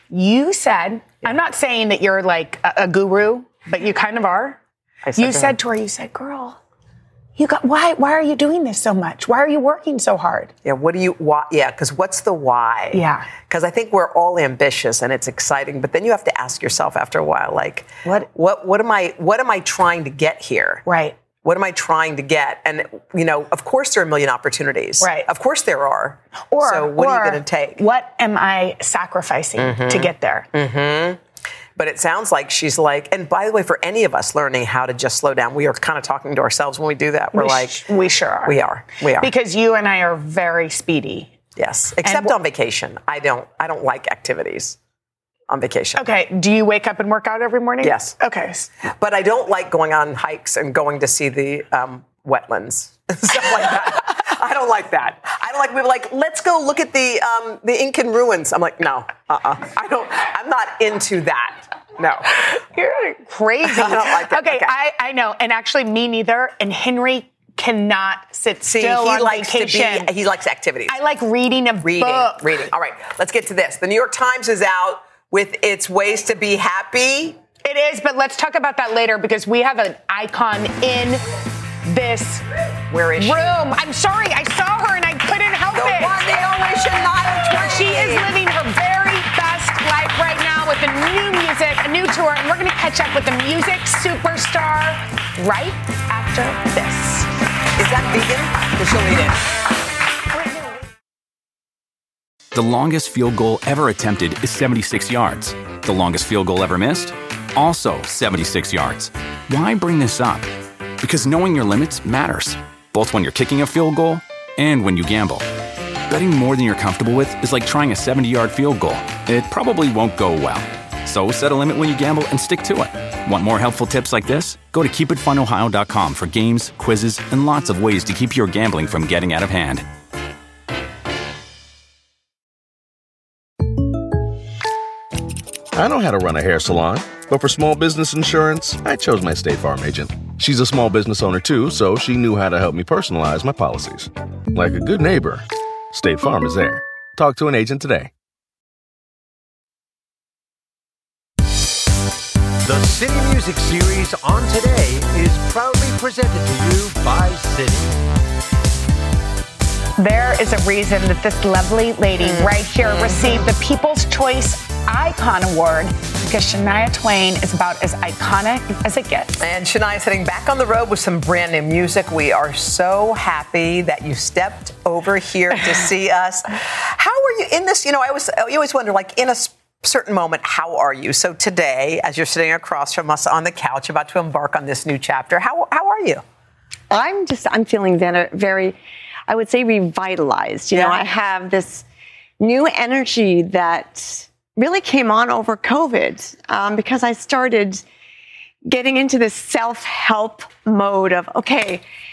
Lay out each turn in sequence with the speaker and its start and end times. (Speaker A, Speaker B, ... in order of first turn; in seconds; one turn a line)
Speaker A: 0.1-4.6
Speaker B: 5.0-5.6
Speaker A: 5.2-6.6
Speaker A: 7.4-10.5
Speaker B: 10.6-20.9
Speaker A: 12.9-13.3
Speaker A: 20.9-21.2
Speaker B: 21.4-27.8
Speaker A: 25.0-25.3
Speaker A: 26.5-30.5
Speaker B: 29.6-31.2
Speaker B: 31.8-37.9
Speaker A: 37.3-38.6
Speaker B: 38.4-39.3
Speaker A: 39.2-41.3
Speaker B: 41.6-44.8
Speaker A: 42.0-42.4
Speaker B: 45.5-46.1
Speaker A: 46.0-48.7
Speaker B: 47.8-48.1
Speaker B: 48.9-62.3
Speaker A: 62.4-70.1
Speaker B: 63.6-64.7
Speaker B: 68.6-71.0
Speaker A: 70.9-72.7
Speaker B: 71.8-77.4
Speaker A: 77.7-81.2
Speaker A: 81.8-82.5
Speaker B: 82.9-83.6
Speaker A: 83.2-86.3
Speaker B: 85.7-88.3
Speaker A: 87.3-97.3
Speaker B: 97.8-99.4
Speaker C: 102.5-110.5
Speaker C: 111.0-115.5
Speaker C: 116.1-129.9
Speaker D: 135.7-148.1
Speaker E: 152.6-157.9
Speaker A: 160.0-169.4
Speaker B: 162.2-163.4
Speaker B: 169.4-186.2
Speaker F: 186.9-188.8
Speaker F: 189.3-191.8
Speaker B: 190.7-191.0
Speaker F: 192.4-197.8
Speaker F: 198.7-201.8